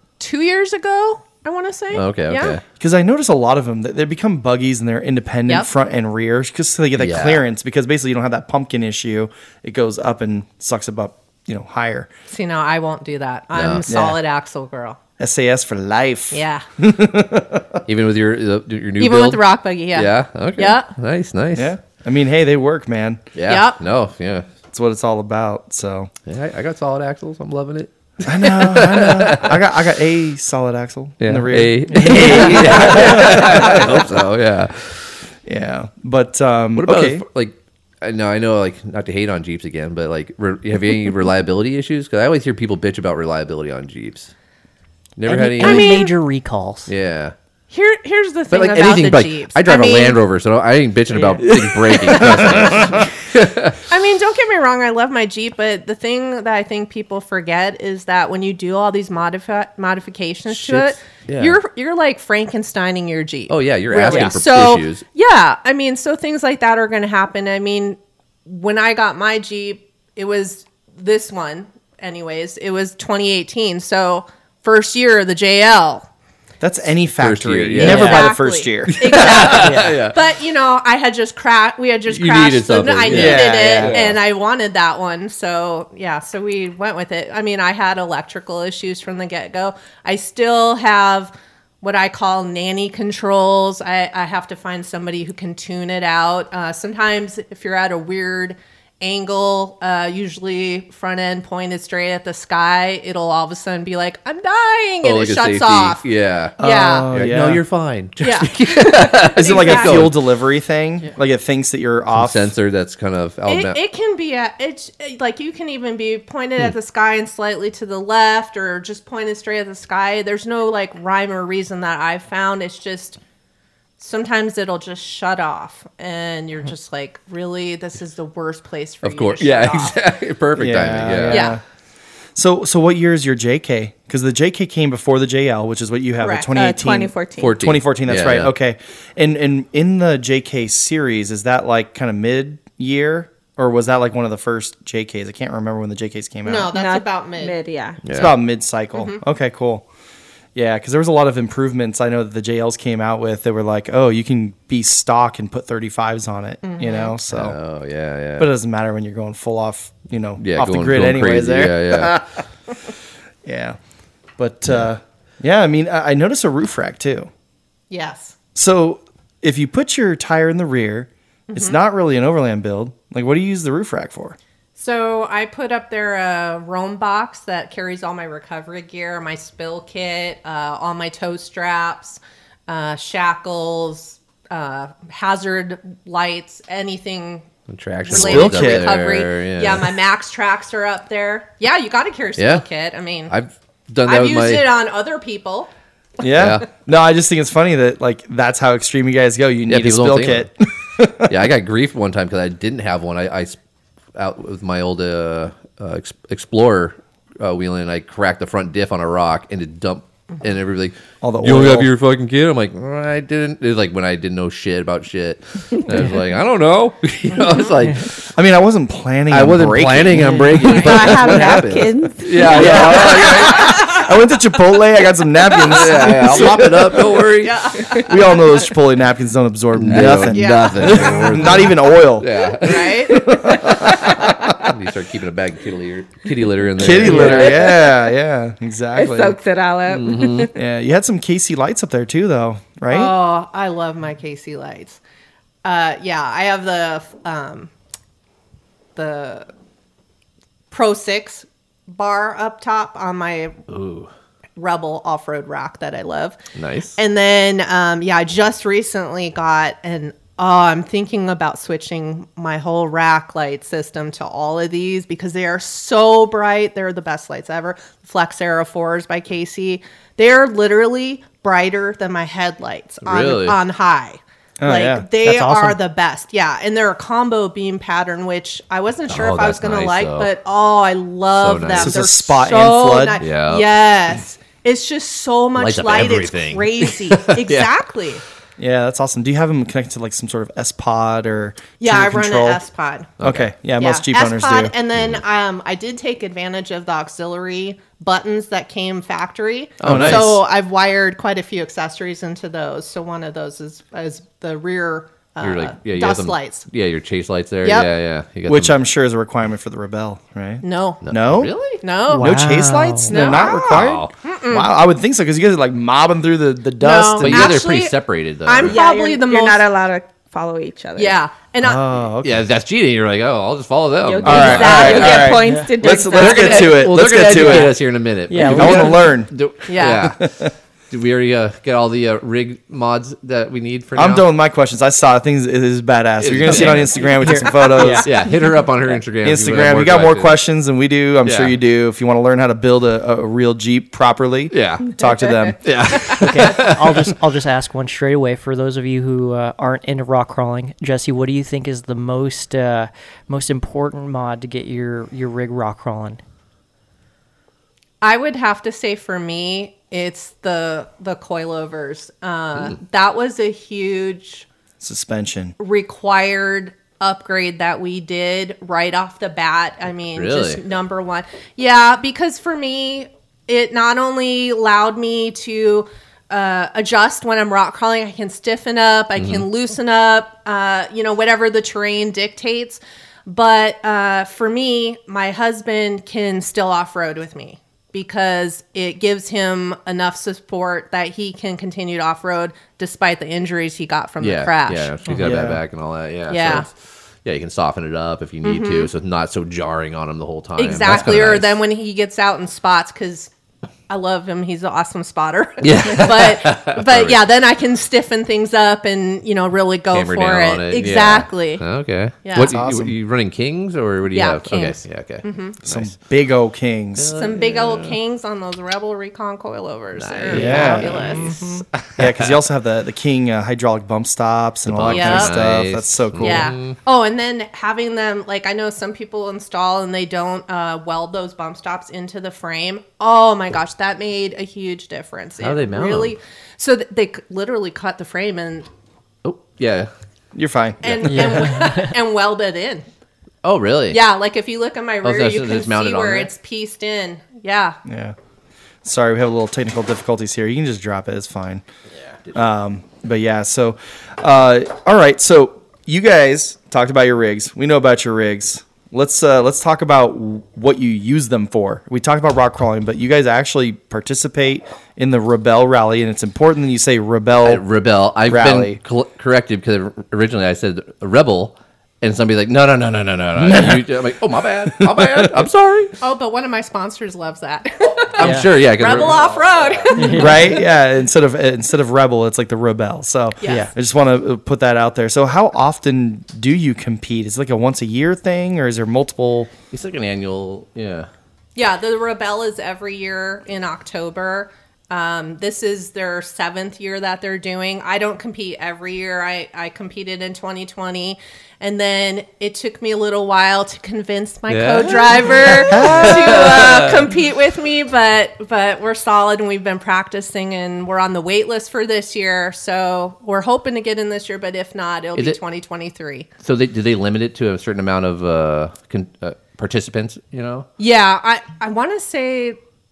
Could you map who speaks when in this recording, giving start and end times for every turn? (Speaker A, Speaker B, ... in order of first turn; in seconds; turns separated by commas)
Speaker A: 0.2-2.6, Speaker B: 1.9-2.6, Speaker C: 2.8-12.1, Speaker B: 7.0-7.4, Speaker A: 12.3-15.0, Speaker B: 13.5-13.9, Speaker C: 13.9-14.2, Speaker C: 15.2-17.8, Speaker A: 16.3-16.6, Speaker B: 17.9-19.4, Speaker A: 19.0-20.9, Speaker B: 19.9-21.7, Speaker C: 21.5-23.2, Speaker B: 23.3-24.5, Speaker A: 23.5-23.8, Speaker C: 24.7-26.1, Speaker B: 26.2-29.6, Speaker C: 28.2-34.1, Speaker B: 31.2-35.1, Speaker D: 31.9-33.2, Speaker C: 35.4-37.2, Speaker B: 36.8-44.3, Speaker B: 45.1-45.9, Speaker D: 45.2-46.9, Speaker A: 45.6-46.1, Speaker B: 46.9-47.3, Speaker A: 47.7-50.2, Speaker B: 48.5-53.8, Speaker D: 51.1-51.4, Speaker C: 51.4-53.0, Speaker A: 53.9-76.0, Speaker B: 60.5-61.6, Speaker B: 63.5-65.0, Speaker D: 64.1-64.4, Speaker C: 76.6-79.5, Speaker B: 77.2-78.2, Speaker A: 77.8-106.0, Speaker D: 77.8-78.3, Speaker B: 78.9-80.2, Speaker D: 79.6-79.9, Speaker B: 82.1-84.2, Speaker C: 83.1-84.1, Speaker B: 105.0-106.5, Speaker A: 106.6-107.1, Speaker C: 106.6-107.6, Speaker B: 107.1-110.1, Speaker A: 108.2-110.1, Speaker C: 109.3-112.5, Speaker B: 112.2-113.8, Speaker A: 113.5-123.2, Speaker A: 124.0-130.0, Speaker B: 129.0-131.4, Speaker C: 130.6-131.6, Speaker A: 131.3-131.6, Speaker C: 132.3-146.7, Speaker A: 136.2-136.5, Speaker E: 136.6-137.6, Speaker B: 137.4-138.5, Speaker A: 146.4-147.6, Speaker E: 146.7-148.0, Speaker B: 148.0-148.3, Speaker C: 148.1-149.8, Speaker A: 148.9-149.2, Speaker C: 150.5-157.6, Speaker A: 156.6-157.1, Speaker B: 157.3-158.5, Speaker C: 158.4-162.2, Speaker B: 160.4-162.2, Speaker C: 163.4-163.8, Speaker C: 164.4-167.3, Speaker A: 167.9-168.3, Speaker C: 168.5-174.3, Speaker A: 171.5-171.8, Speaker A: 174.8-187.5, Speaker B: 187.7-189.9, Speaker A: 188.0-193.3, Speaker C: 188.1-189.0, Speaker B: 192.4-192.6, Speaker B: 193.3-194.6, Speaker A: 194.1-195.7, Speaker C: 196.2-201.3, Speaker B: 196.3-196.7, Speaker B: 199.7-200.5, Speaker B: 201.3-203.6, Speaker B: 204.2-218.3, Speaker C: 211.2-211.9, Speaker C: 218.3-221.7, Speaker B: 219.3-223.9, Speaker D: 220.2-220.5, Speaker A: 220.6-221.0, Speaker E: 220.6-223.0, Speaker C: 222.4-227.2, Speaker A: 222.6-224.0, Speaker B: 225.6-227.7, Speaker A: 227.4-228.5, Speaker C: 227.8-234.7, Speaker B: 229.7-237.7, Speaker A: 230.0-231.8, Speaker A: 232.5-233.3, Speaker C: 236.8-239.4, Speaker E: 237.0-238.0, Speaker E: 238.9-240.5, Speaker B: 239.8-240.5, Speaker C: 240.5-243.1, Speaker A: 242.9-245.0, Speaker A: 245.6-247.7, Speaker A: 248.9-249.5, Speaker A: 250.7-253.6, Speaker B: 253.7-254.1, Speaker A: 254.6-256.4, Speaker B: 256.6-257.0, Speaker A: 256.9-288.2, Speaker B: 273.0-273.6, Speaker C: 274.6-275.1, Speaker D: 275.2-275.8, Speaker B: 279.1-280.3, Speaker B: 281.3-282.0, Speaker C: 281.8-283.2, Speaker B: 283.2-283.7, Speaker B: 285.6-287.7, Speaker C: 288.6-292.6, Speaker A: 291.8-293.1, Speaker B: 293.2-293.5, Speaker C: 293.2-294.7, Speaker A: 293.8-306.6, Speaker B: 294.9-295.2, Speaker B: 299.8-300.4, Speaker C: 299.8-300.4, Speaker B: 305.4-308.7, Speaker A: 307.6-307.9, Speaker C: 308.5-311.5, Speaker A: 310.6-311.0, Speaker B: 311.0-311.8, Speaker A: 311.8-312.3, Speaker D: 312.1-313.2, Speaker C: 312.2-317.6, Speaker A: 313.1-314.7, Speaker B: 313.3-314.1, Speaker A: 316.8-319.6, Speaker B: 317.2-318.8, Speaker E: 318.6-321.1, Speaker A: 321.0-321.9, Speaker C: 321.6-322.5, Speaker B: 322.2-330.2, Speaker E: 324.0-326.8, Speaker C: 324.2-327.8, Speaker A: 324.4-325.3, Speaker D: 325.4-325.7, Speaker D: 327.3-327.8, Speaker D: 328.3-329.1, Speaker C: 328.4-329.3, Speaker A: 329.7-330.1, Speaker C: 330.0-330.5, Speaker B: 330.9-334.2, Speaker C: 333.9-338.1, Speaker B: 336.2-340.3, Speaker D: 337.1-338.1, Speaker C: 339.2-346.1, Speaker B: 341.2-341.6, Speaker B: 344.5-344.9, Speaker B: 345.6-347.1, Speaker D: 346.2-356.2, Speaker A: 358.0-364.5, Speaker C: 364.8-365.5, Speaker A: 365.6-394.9, Speaker B: 370.2-370.6, Speaker B: 379.2-379.4, Speaker B: 394.2-401.6, Speaker D: 395.1-395.4, Speaker C: 395.1-395.6, Speaker A: 396.3-396.7, Speaker A: 398.4-398.9, Speaker A: 400.6-403.3, Speaker A: 403.9-411.6, Speaker B: 405.6-407.2, Speaker B: 409.9-415.9, Speaker A: 412.2-412.6, Speaker C: 412.4-412.9, Speaker A: 414.1-415.6, Speaker C: 415.6-417.1, Speaker B: 416.9-418.0, Speaker A: 417.1-421.4, Speaker B: 420.0-421.4, Speaker C: 420.3-421.2, Speaker D: 420.4-421.6, Speaker B: 422.0-422.3, Speaker C: 422.0-426.5, Speaker B: 424.7-426.8, Speaker A: 424.9-425.5, Speaker A: 426.2-438.7, Speaker B: 435.4-436.1, Speaker B: 439.2-439.9, Speaker C: 440.3-441.4, Speaker A: 440.8-442.8, Speaker D: 441.2-441.9, Speaker B: 443.4-444.0, Speaker A: 443.9-447.8, Speaker B: 445.0-446.3, Speaker C: 447.8-448.1, Speaker C: 448.8-451.6, Speaker C: 452.3-467.6, Speaker B: 467.4-475.9, Speaker C: 468.2-468.8, Speaker C: 473.4-474.0, Speaker C: 474.6-475.4, Speaker A: 476.0-480.6, Speaker B: 477.8-480.1, Speaker D: 478.2-478.5, Speaker D: 479.9-480.6, Speaker C: 480.1-489.5, Speaker A: 483.4-483.7, Speaker D: 483.4-483.7, Speaker B: 489.7-491.1, Speaker A: 491.5-516.3, Speaker B: 504.5-507.1, Speaker C: 505.5-506.5, Speaker B: 516.4-520.7, Speaker A: 520.8-522.6